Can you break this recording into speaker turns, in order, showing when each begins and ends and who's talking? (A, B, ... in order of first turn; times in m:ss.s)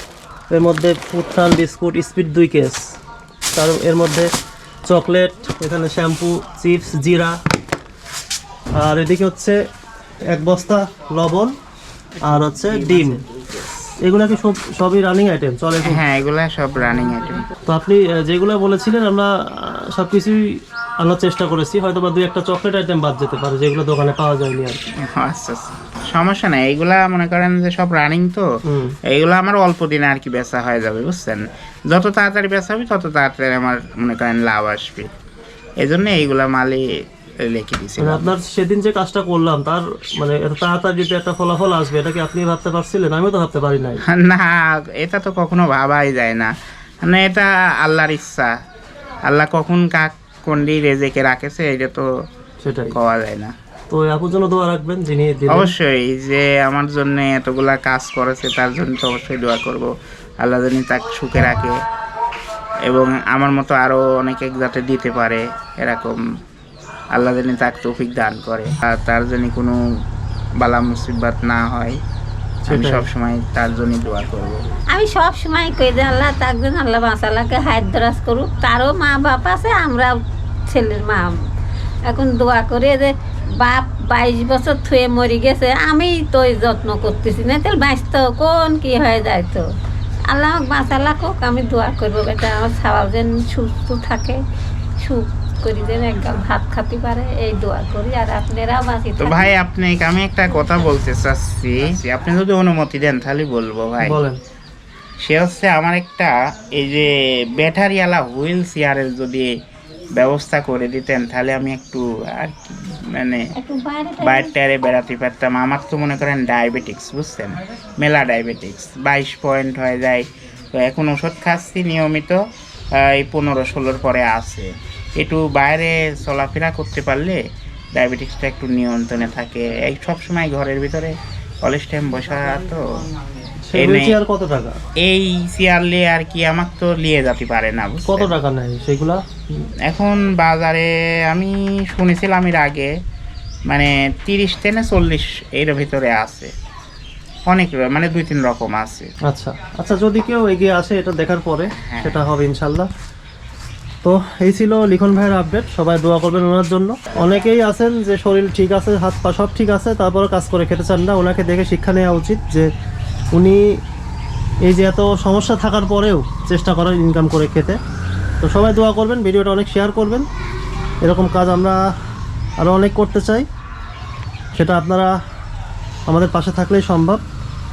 0:00.5-0:02.8 A
0:03.5-0:04.3 A
0:04.9-0:07.4 A
0:08.8-0:09.6 A
0:10.3-0:11.5 A
0:12.2-0:13.2 A
0:12.4-0:13.8 B
0:14.0-0:16.0 A
0:15.8-0:17.4 B
0:17.7-0:20.5 A
0:21.0-0:24.8 A
0:25.1-0:28.5 B
0:28.7-0:29.0 A
0:29.1-0:35.1 B
0:35.8-0:36.9 B
0:37.4-0:38.3 B
0:38.0-0:44.0 A
0:44.1-0:48.5 B
0:49.2-0:52.1 B
0:52.6-0:53.0 A
0:52.9-0:53.5 B
0:53.9-0:55.7 A
0:55.5-1:01.8 B
1:02.9-1:06.2 B
1:07.1-1:09.8 B
1:10.6-1:12.0 B
1:12.6-1:13.1 A
1:12.7-1:14.6 B
1:14.9-1:20.2 C
1:20.7-1:21.3 C
1:22.1-1:29.7 C
1:30.3-1:34.4 C
1:35.0-1:39.5 C
1:39.2-1:44.2 B
1:44.0-1:44.4 A
1:45.2-1:49.5 B
1:50.2-1:53.5 B
1:53.5-1:54.5 C
1:54.2-2:02.4 B
2:03.0-2:07.4 B
2:08.0-2:13.1 B
2:13.6-2:14.8 A
2:13.8-2:14.2 B
2:15.0-2:18.3 B
2:18.1-2:19.7 A
2:19.8-2:22.9 B
2:23.7-2:26.5 B
2:27.5-2:29.1 B
2:29.3-2:32.9 A
2:31.8-2:32.2 B
2:34.0-2:42.7 A
2:43.3-2:43.6 A
2:44.6-2:47.8 A
2:48.4-2:50.3 A
2:51.0-2:51.8 A
2:52.6-2:53.5 A
2:54.6-2:55.1 A
2:56.1-2:57.2 A